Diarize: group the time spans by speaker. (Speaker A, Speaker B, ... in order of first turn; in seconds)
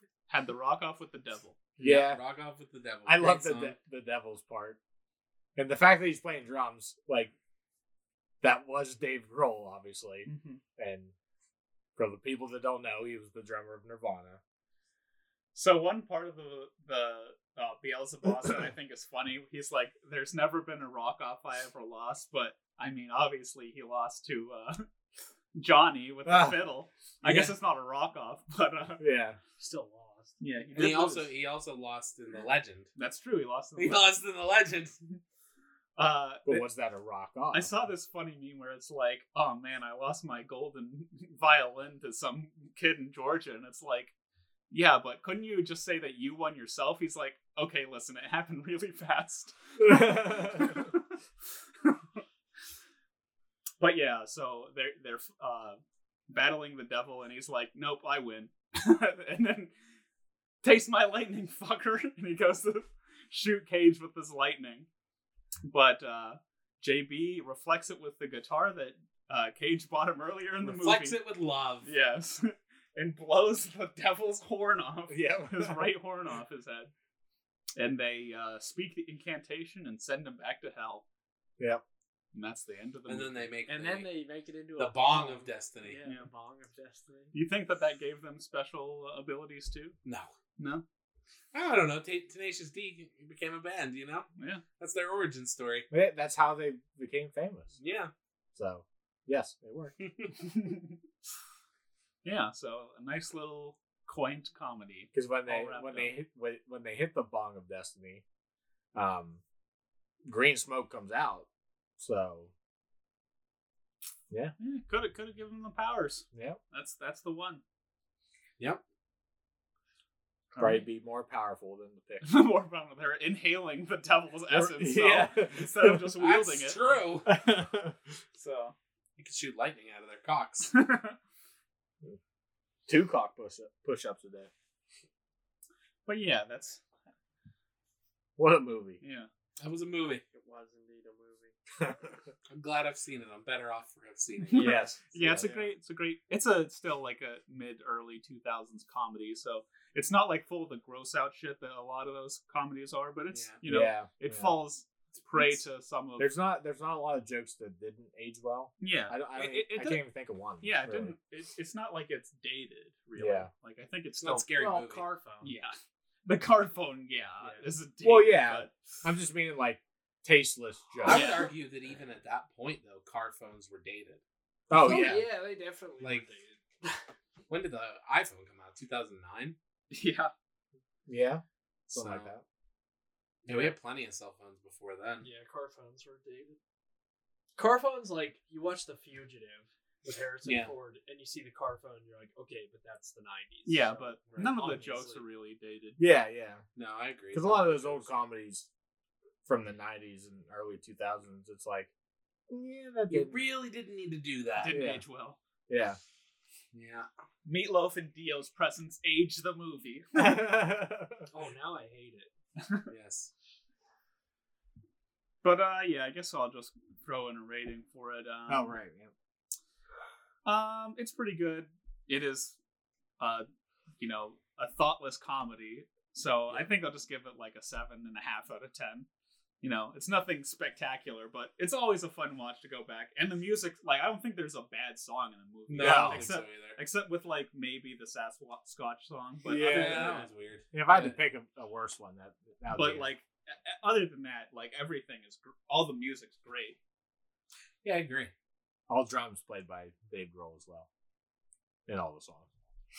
Speaker A: 0.3-1.6, 10.2-10.6, 15.6-24.9, 25.6-29.0, 30.4-31.3, 33.0-34.2, 36.0-36.6, 37.5-44.1, 44.7-51.1, 51.8-52.2, 53.8-59.7, 60.6-64.9, 65.7-71.2, 71.8-76.9, 77.8-81.0, 82.3-83.5, 87.3-90.0, 90.6-90.8, 94.4-94.6, 100.4-101.0, 102.2-106.1, 114.6-117.6, 120.5-120.8, 122.2-126.8, 128.3-128.8, 130.7-131.2, 136.1-136.8, 139.0-139.3, 144.5-156.3, 158.8-160.0, 160.6-164.5, 165.4-165.7, 166.3-168.8, 171.1-171.5, 179.9-180.3, 193.7-196.0, 204.6-205.4, 207.4-210.4, 212.6-212.9, 215.4-218.8, 220.4-222.6, 223.2-223.5, 224.0-229.1, 229.6-240.3, 242.7-246.8
Speaker B: 1.8-2.2, 3.1-4.8, 5.6-7.3, 8.4-11.1, 12.0-14.4, 26.3-26.6, 27.2-27.5, 29.0-29.4, 36.5-37.9, 49.8-50.7, 75.1-75.9, 95.9-97.8, 98.5-99.9, 105.1-108.2, 108.9-109.4, 110.2-111.5, 112.0-112.5, 116.3-116.6, 120.6-122.3, 124.5-126.1, 127.3-128.0, 132.9-134.5, 138.4-139.0, 141.8-142.2, 144.5-145.6, 153.6-154.6, 156.2-161.2, 163.2-163.5, 168.0-171.4, 174.7-175.3, 181.1-182.4, 196.0-196.6, 197.3-198.7, 199.5-201.9, 202.5-203.4, 204.7-205.0, 205.7-206.0, 210.1-211.3, 218.5-219.1, 235.8-236.3, 239.4-243.1, 248.9-250.9, 251.9-252.5
Speaker C: 1.8-3.8, 30.8-32.9, 33.8-35.0, 70.6-71.9, 83.1-84.1, 84.8-86.0, 90.0-90.3, 91.5-94.3, 94.8-95.9, 97.8-98.1, 100.0-100.3, 126.2-127.3, 129.2-130.7, 139.6-140.2, 142.5-144.9, 153.3-153.6, 164.2-165.1, 171.1-174.2, 176.0-176.3, 177.5-179.6, 181.9-182.3, 183.5-185.3, 190.4-190.7, 196.8-198.1, 203.1-205.0, 206.7-207.1, 211.3-211.6, 212.9-213.3, 235.7-236.8, 239.5-241.2, 247.8-248.3
Speaker D: 29.6-30.4, 83.7-87.3, 140.3-141.5, 164.6-165.6, 174.7-176.6, 185.2-186.6, 187.6-195.2, 211.5-212.3